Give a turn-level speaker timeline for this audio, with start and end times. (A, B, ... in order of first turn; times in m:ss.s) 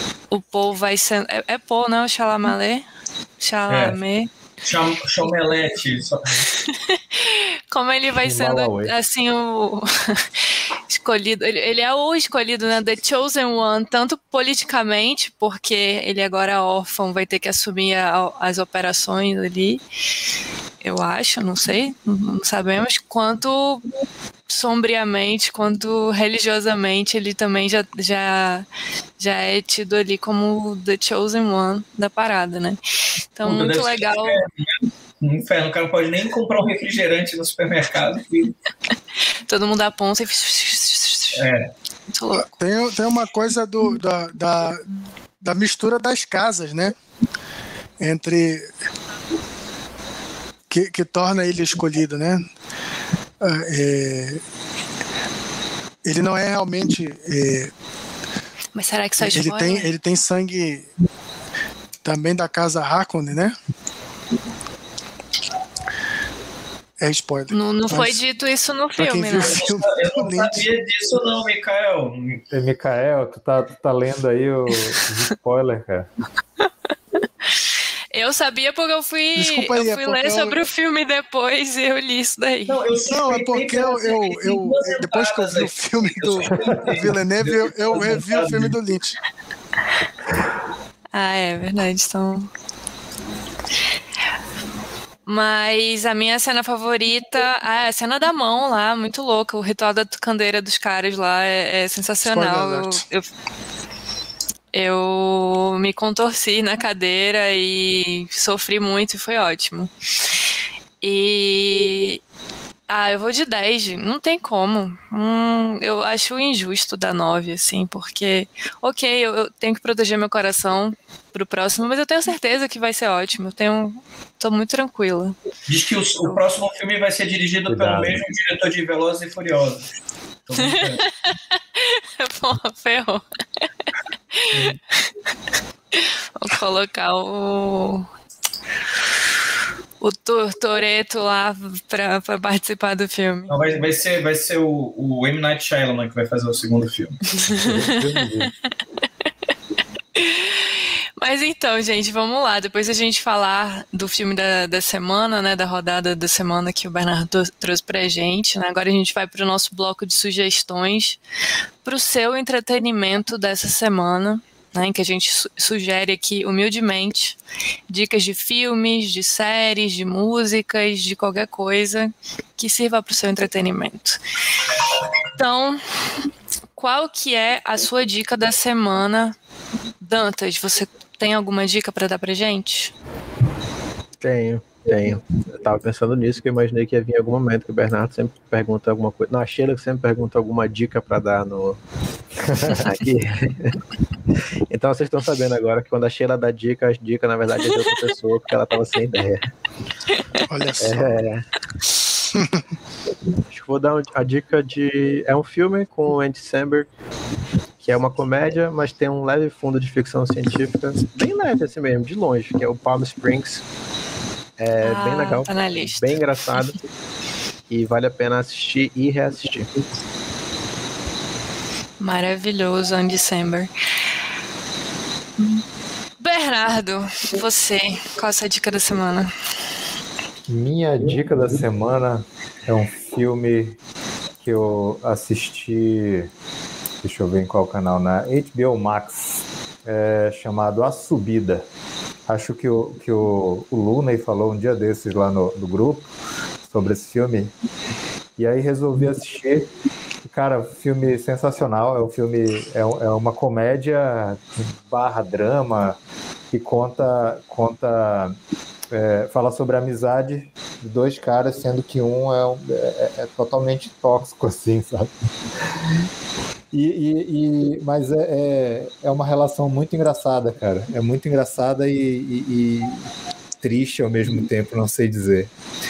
0:00.3-0:02.9 A
0:03.4-0:04.3 A
0:03.7-0:04.0 B
0:04.6-0:06.4 B
0:06.7-0:10.2 A
0:08.2-0:08.9 C
0:10.9-0:19.8 A
0:20.8-0:23.8 A
0:24.5-0:28.7 A
0:29.2-0:32.8 A
0:33.4-0:34.4 A
0:33.4-0:38.6 B
0:39.5-0:41.5 A
0:41.4-0:41.7 B
0:42.1-0:42.6 A
0:42.6-0:44.8 D
0:45.4-0:47.0 D
0:48.0-0:48.7 D
0:50.7-0:52.4 D
0:53.4-0:54.4 D
0:56.0-0:57.7 D
0:58.7-0:59.9 A
0:59.2-1:00.9 D
1:02.0-1:03.6 D
1:07.0-1:08.2 D
1:07.5-1:09.6 A
1:09.0-1:10.6 D
1:09.4-1:12.4 B
1:12.5-1:16.1 C
1:18.1-1:22.8 A
1:19.4-1:20.6 D
1:22.7-1:28.8 B
1:23.1-1:29.2 D
1:31.1-1:32.5 A
1:35.3-1:43.3 A
1:42.2-1:43.0 D
1:44.7-1:49.9 A
1:51.0-1:52.2 A
1:52.9-2:05.4 A
2:05.7-2:09.8 B
2:07.7-2:08.2 C
2:10.5-2:11.0 B
2:10.6-2:11.1 A
2:11.8-2:13.2 A
2:14.3-2:14.8 A
2:15.9-2:18.1 A
2:20.0-2:23.5 A
2:23.5-2:27.2 B
2:27.4-2:28.2 A
2:27.6-2:28.5 C
2:30.2-2:41.2 A
2:41.8-2:47.4 A
2:47.9-2:54.2 A
2:55.4-2:55.8 A
2:56.8-2:59.4 A
3:00.0-3:02.9 A
3:04.2-3:11.8 E
3:12.7-3:13.8 E
3:14.7-3:19.5 E
3:20.5-3:21.2 D
3:20.8-3:21.4 E
3:23.5-3:26.9 E
3:27.8-3:33.6 E
3:34.6-3:36.8 E
3:34.8-3:36.1 A
3:37.7-3:39.7 E
3:42.0-3:43.7 A
3:46.2-3:49.3 A
3:50.5-3:53.8 C
3:54.4-3:56.3 C
3:57.0-4:01.6 C
4:02.3-4:06.1 C
4:06.7-4:07.5 C
4:08.4-4:09.7 C
4:10.2-4:16.0 C
4:16.5-4:18.4 C
4:18.9-4:25.1 C
4:26.7-4:33.0 C
4:33.6-4:35.5 C